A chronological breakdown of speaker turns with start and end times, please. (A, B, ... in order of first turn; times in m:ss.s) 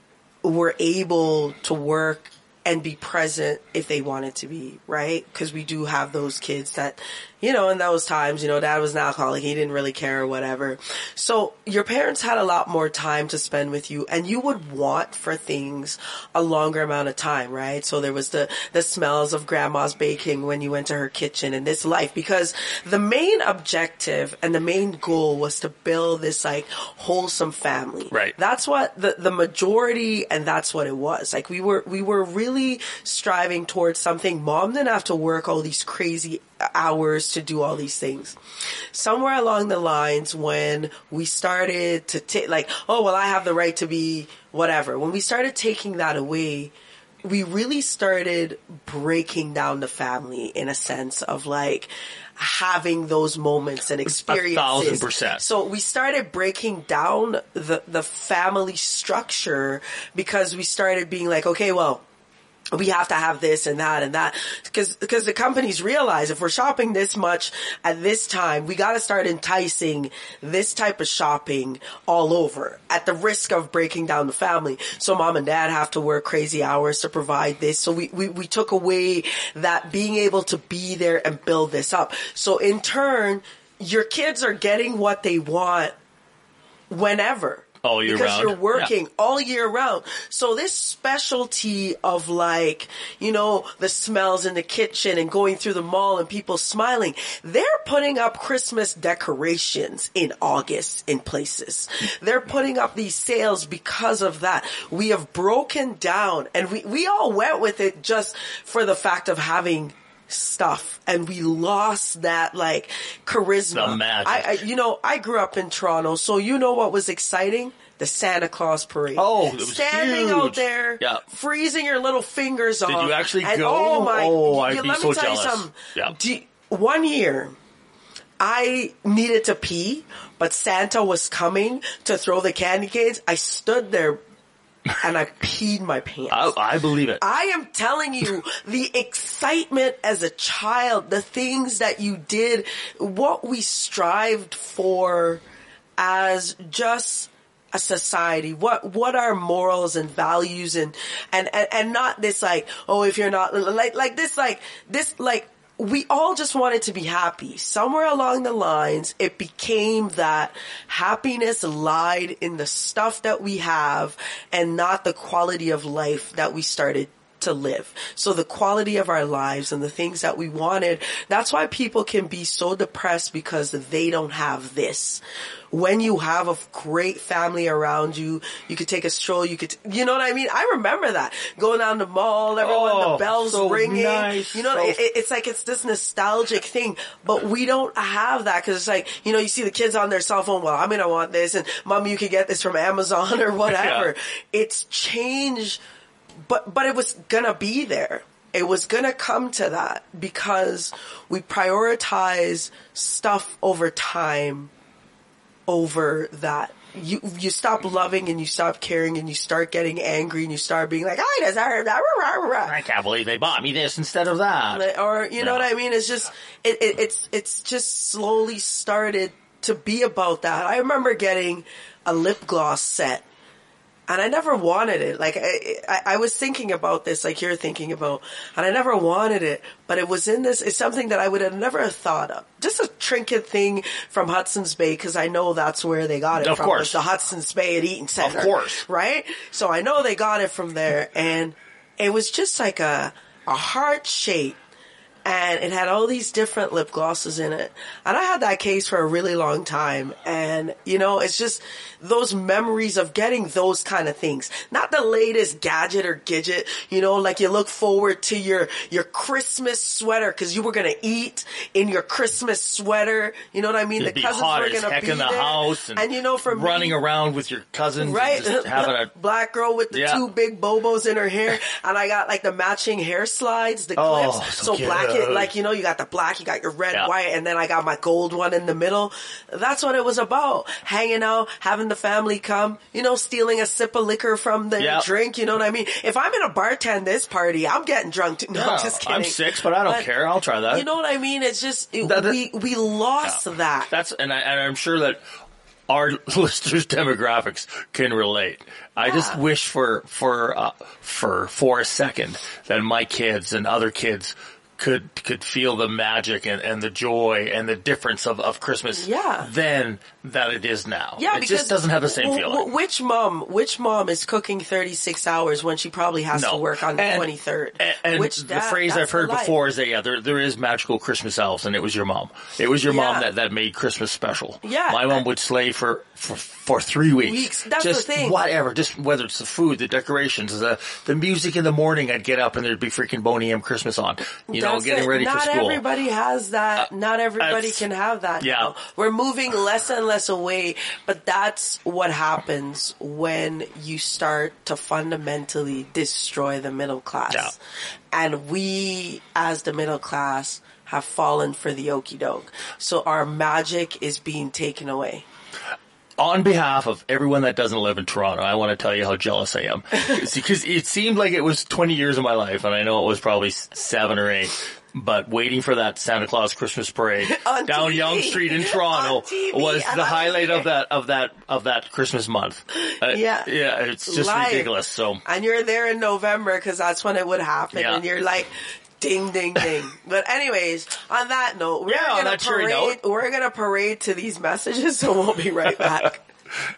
0:00.4-0:38.4 A
0:38.9-0:46.7 A
0:47.2-1:02.0 A
0:54.1-0:55.4 B
1:02.7-1:25.9 A
1:26.9-2:07.6 A
1:27.8-1:28.9 B
1:53.7-1:54.6 B
1:59.2-2:01.2 B
2:02.9-2:06.2 B
2:08.4-2:14.2 A
2:15.0-2:16.6 A
2:16.3-2:17.2 B
2:17.2-2:25.4 A
2:26.0-3:15.8 A
3:02.6-3:05.0 B
3:13.7-3:14.1 B
3:16.5-3:24.7 A
3:25.7-3:32.8 A
3:32.7-3:35.7 B
3:34.7-3:43.2 A
3:44.1-4:04.6 A
3:56.4-3:57.0 B
3:58.2-3:58.8 B
4:05.2-4:27.0 A
4:24.0-4:29.1 B
4:28.0-4:50.1 A
4:29.9-4:30.2 B
4:34.0-4:35.5 B
4:44.8-4:45.1 B
4:48.6-4:50.9 B
4:50.7-4:53.9 A
4:52.0-4:52.4 B
4:53.9-4:55.2 B
4:55.9-5:12.7 B
4:59.0-4:59.4 A
5:08.9-5:09.5 A
5:11.2-5:19.6 A
5:16.3-5:35.8 B
5:22.9-5:23.3 A
5:24.6-5:25.2 A
5:27.2-5:28.4 A
5:34.5-5:47.6 A
5:37.4-5:37.8 B
5:38.4-5:38.7 B
5:48.1-5:55.2 A
5:56.2-6:15.2 B
6:07.2-6:10.7 A
6:12.8-6:13.5 A
6:14.1-6:14.7 A
6:15.2-6:26.2 A
6:17.7-6:18.0 B
6:21.9-6:23.0 B